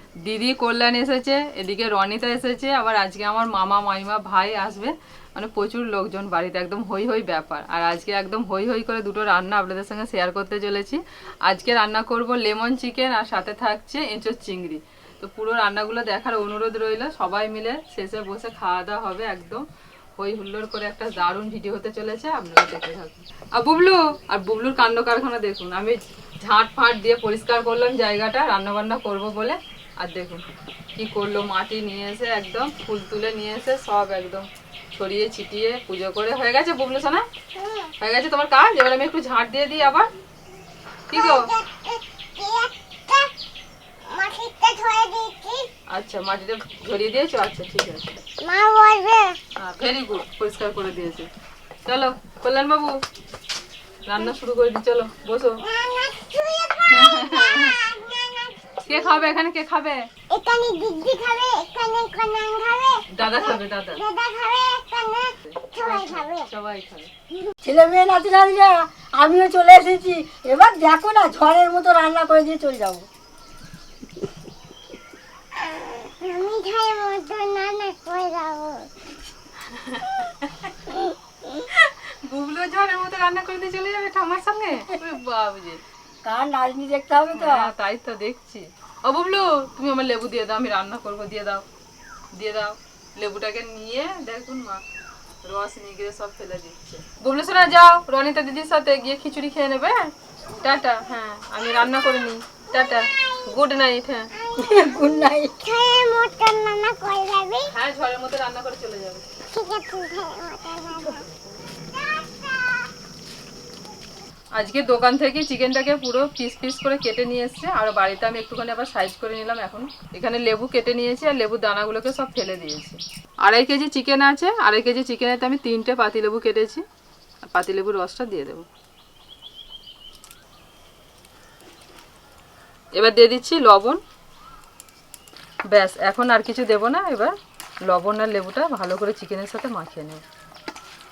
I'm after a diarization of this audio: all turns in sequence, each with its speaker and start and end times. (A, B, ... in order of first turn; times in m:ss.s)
0:00.2-0:19.7 A
0:20.2-0:30.4 A
0:31.0-0:37.3 A
0:37.6-0:37.9 B
0:38.0-0:40.1 A
0:41.1-0:41.5 A
0:41.1-0:43.3 B
0:44.1-0:45.7 B
0:45.9-0:48.2 A
0:48.4-0:49.4 B
0:49.6-0:51.3 A
0:51.8-0:53.0 A
0:54.1-0:55.6 A
0:55.7-0:59.2 B
0:56.9-0:57.8 A
0:58.9-1:00.1 A
1:00.3-1:06.5 B
1:03.1-1:04.0 A
1:05.4-1:07.1 A
1:07.6-1:13.1 C
1:15.6-1:18.9 B
1:19.6-1:20.7 A
1:21.6-1:25.8 A
1:26.2-1:27.7 C
1:27.4-1:31.6 A
1:32.3-1:34.8 A
1:35.4-1:44.3 A
1:44.6-1:45.6 C
1:45.6-1:47.7 B
1:47.7-1:49.2 A
1:49.5-1:51.2 B
1:54.6-2:06.8 A
2:07.4-2:08.7 A
2:13.0-2:14.0 A
2:15.7-2:20.2 A